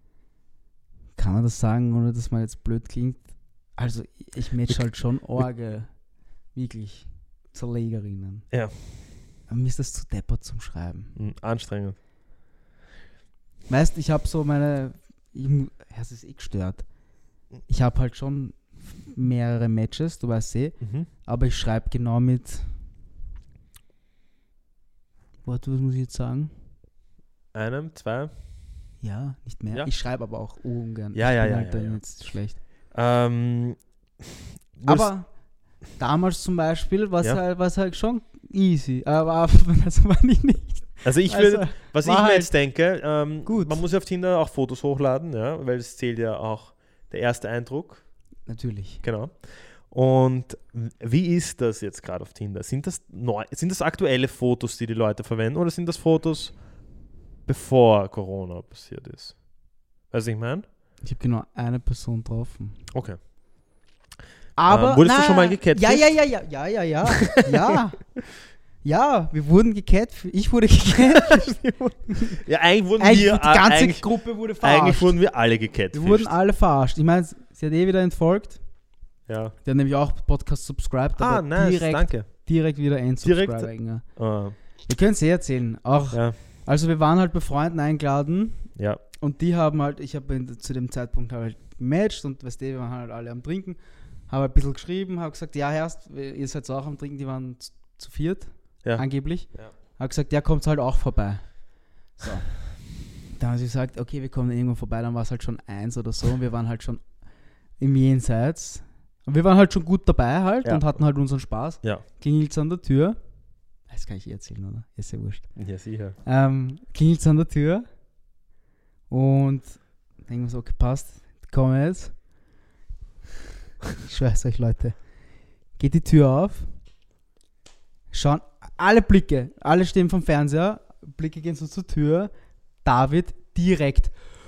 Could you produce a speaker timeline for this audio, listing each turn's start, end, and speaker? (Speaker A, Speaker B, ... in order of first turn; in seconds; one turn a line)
Speaker A: 1.1-3.2
Speaker A: 3.8-5.9
Speaker A: 6.5-8.4
Speaker A: 9.5-11.2
Speaker B: 11.2-11.9
Speaker A: 13.7-16.8
Speaker A: 17.7-22.7
Speaker B: 20.8-21.1
Speaker A: 25.4-26.5
Speaker B: 27.5-28.3
Speaker A: 29.0-32.6
Speaker B: 31.1-32.0
Speaker B: 32.9-33.8
Speaker B: 34.8-35.1
Speaker A: 34.8-35.3
Speaker A: 36.0-42.5
Speaker B: 41.0-48.0
Speaker A: 43.5-43.8
Speaker A: 48.5-49.0
Speaker B: 49.0-56.5
Speaker B: 57.5-59.4
Speaker B: 60.1-60.6
Speaker A: 61.0-62.8
Speaker B: 62.9-63.2
Speaker A: 64.6-68.0
Speaker B: 64.7-66.2
Speaker B: 67.2-67.7
Speaker A: 68.8-72.4
Speaker B: 71.1-74.1
Speaker A: 73.0-75.2
Speaker B: 74.6-76.3
Speaker A: 75.9-78.6
Speaker B: 79.3-79.5
Speaker A: 79.6-84.0
Speaker B: 81.2-82.3
Speaker B: 83.2-84.5
Speaker A: 84.9-93.8
Speaker B: 86.1-86.4
Speaker B: 88.8-89.0
Speaker A: 94.3-101.6
Speaker B: 98.8-99.7
Speaker A: 102.2-102.6
Speaker A: 103.3-107.0
Speaker A: 107.8-113.2
Speaker A: 113.9-115.5
Speaker B: 115.5-116.2
Speaker A: 116.2-117.8
Speaker A: 119.1-122.1
Speaker A: 124.0-125.0
Speaker A: 125.8-126.7
Speaker A: 128.1-132.3
Speaker A: 132.8-134.1